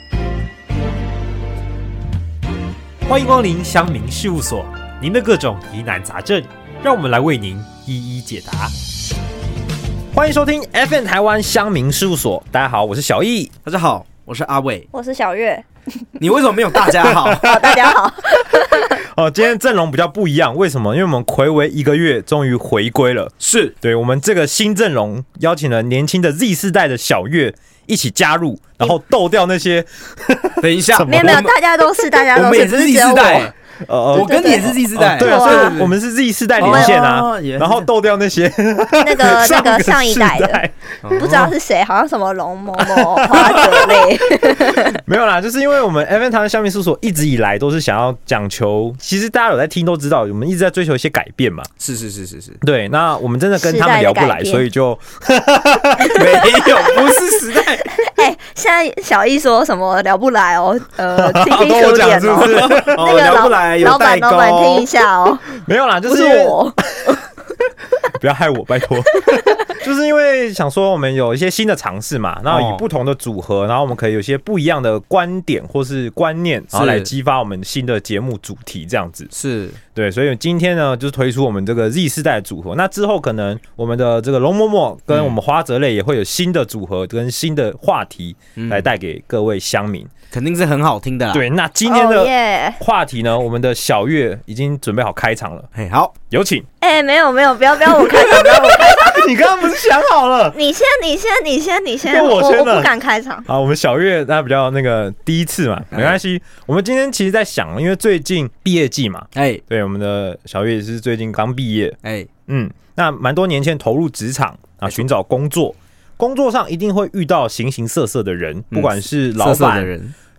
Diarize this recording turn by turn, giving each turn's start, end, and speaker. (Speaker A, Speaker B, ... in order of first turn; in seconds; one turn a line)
Speaker A: 3.0-8.7
Speaker A: 10.1-13.5
Speaker B: 13.6-14.9
Speaker C: 14.9-15.6
Speaker B: 16.2-17.6
Speaker A: 17.0-17.9
Speaker C: 17.4-19.0
Speaker A: 18.9-31.5
Speaker B: 23.4-23.7
Speaker B: 30.6-31.5
Speaker C: 31.1-33.5
Speaker B: 32.3-33.5
Speaker A: 33.8-41.5
Speaker B: 34.1-36.0
Speaker C: 34.1-35.8
Speaker B: 36.6-37.9
Speaker C: 36.6-37.0
Speaker C: 39.0-40.6
Speaker B: 41.0-41.4
Speaker C: 41.1-45.0
Speaker A: 42.8-51.7
Speaker B: 51.8-52.6
Speaker A: 52.6-56.5
Speaker C: 53.6-54.6
Speaker B: 56.1-57.9
Speaker C: 57.8-65.4
Speaker A: 61.1-63.0
Speaker B: 61.8-64.9
Speaker A: 65.5-67.2
Speaker C: 66.0-66.8
Speaker A: 68.1-79.3
Speaker B: 72.5-72.8
Speaker B: 76.7-77.1
Speaker B: 79.3-79.8
Speaker A: 79.9-90.1
Speaker B: 85.1-85.3
Speaker B: 88.5-88.9
Speaker B: 90.3-91.4
Speaker A: 91.3-95.7
Speaker C: 91.8-92.8
Speaker B: 95.7-96.1
Speaker A: 96.3-96.7
Speaker C: 96.8-99.2
Speaker A: 98.2-100.5
Speaker C: 100.5-103.5
Speaker A: 102.1-102.9
Speaker A: 103.5-119.9
Speaker B: 105.9-106.2
Speaker B: 109.3-109.6
Speaker B: 112.0-112.3
Speaker B: 118.7-120.1